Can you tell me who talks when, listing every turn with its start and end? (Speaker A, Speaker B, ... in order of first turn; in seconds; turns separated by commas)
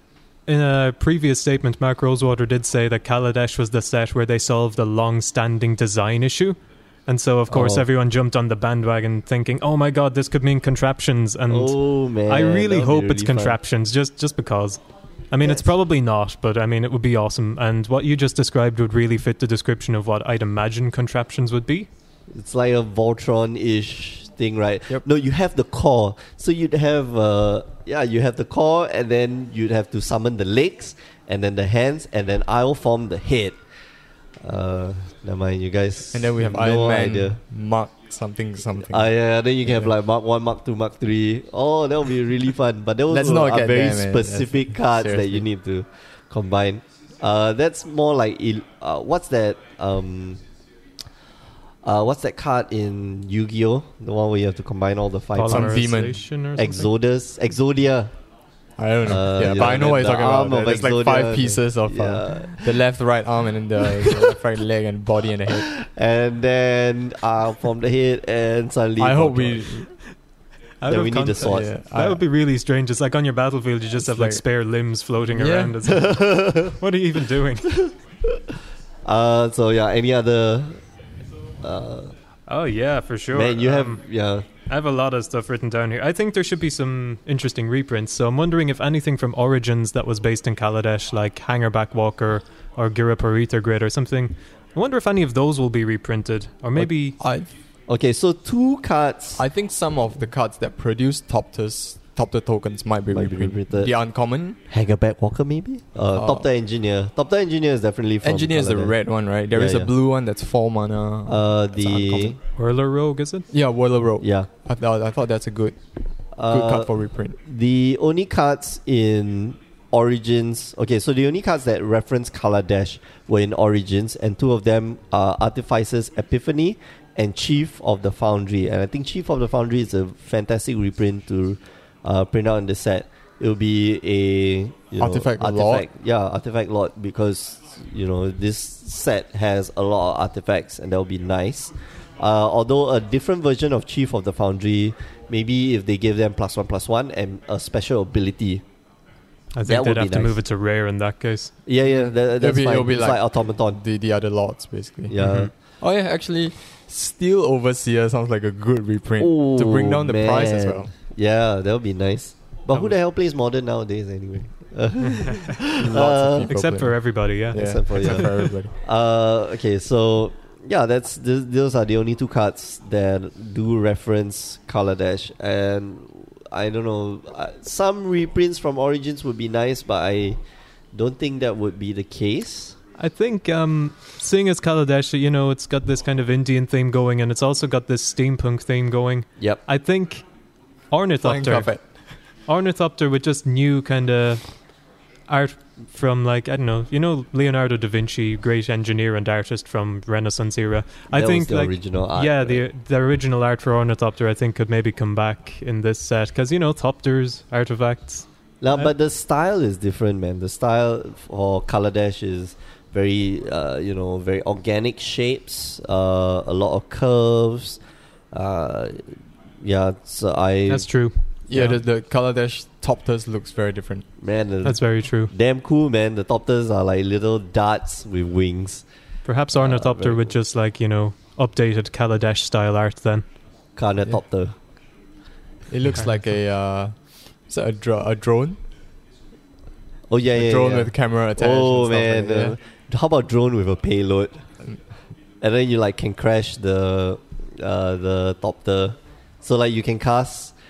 Speaker A: 0.5-21.9, Speaker B: 7.5-7.9, Speaker B: 11.5-13.6, Speaker B: 22.3-33.6, Speaker B: 34.4-37.4, Speaker C: 36.1-39.1, Speaker B: 38.9-50.4, Speaker C: 43.1-45.5, Speaker B: 51.8-55.9, Speaker A: 55.3-56.9, Speaker C: 55.5-56.2, Speaker B: 56.6-58.1, Speaker C: 58.8-65.7, Speaker B: 59.0-62.8, Speaker B: 63.8-64.4, Speaker B: 65.5-69.7, Speaker C: 69.0-69.9, Speaker A: 70.8-77.8, Speaker B: 70.9-71.7, Speaker C: 71.5-72.2, Speaker C: 74.0-74.4, Speaker C: 75.3-75.8, Speaker B: 75.8-76.8, Speaker B: 77.7-78.4, Speaker B: 79.0-80.8, Speaker B: 81.6-82.1, Speaker A: 82.5-84.0, Speaker B: 83.3-84.5, Speaker A: 84.7-97.2, Speaker C: 96.8-97.5, Speaker B: 97.9-99.5, Speaker C: 99.4-104.6, Speaker B: 103.1-103.9, Speaker B: 104.7-109.0, Speaker C: 106.2-106.5, Speaker C: 108.2-112.4, Speaker B: 109.5-109.9, Speaker B: 111.3-112.4, Speaker A: 112.6-113.5, Speaker C: 113.5-115.8, Speaker B: 114.2-114.5, Speaker B: 116.4-148.6, Speaker C: 116.5-117.4, Speaker C: 135.0-135.8, Speaker A: 149.5-151.5, Speaker B: 149.7-150.4, Speaker B: 151.7-153.8, Speaker C: 152.4-155.2, Speaker B: 155.1-155.5, Speaker A: 155.2-155.5, Speaker C: 155.8-160.9, Speaker B: 159.2-166.5, Speaker A: 165.2-165.5, Speaker C: 165.8-166.9, Speaker A: 166.4-168.3, Speaker C: 167.5-168.7, Speaker B: 167.5-180.4, Speaker B: 180.9-182.8, Speaker A: 183.0-190.3, Speaker A: 190.9-191.7, Speaker C: 191.2-191.8, Speaker A: 192.5-194.4, Speaker A: 195.3-208.9, Speaker B: 201.1-202.6, Speaker B: 208.6-217.8, Speaker B: 218.3-220.9, Speaker A: 220.7-221.8, Speaker C: 221.5-224.1, Speaker B: 224.2-228.8, Speaker A: 224.6-225.3, Speaker A: 229.2-233.3, Speaker B: 229.5-230.4, Speaker B: 233.8-234.6, Speaker C: 235.7-238.6, Speaker B: 240.1-244.4, Speaker C: 240.3-242.6, Speaker B: 245.4-250.5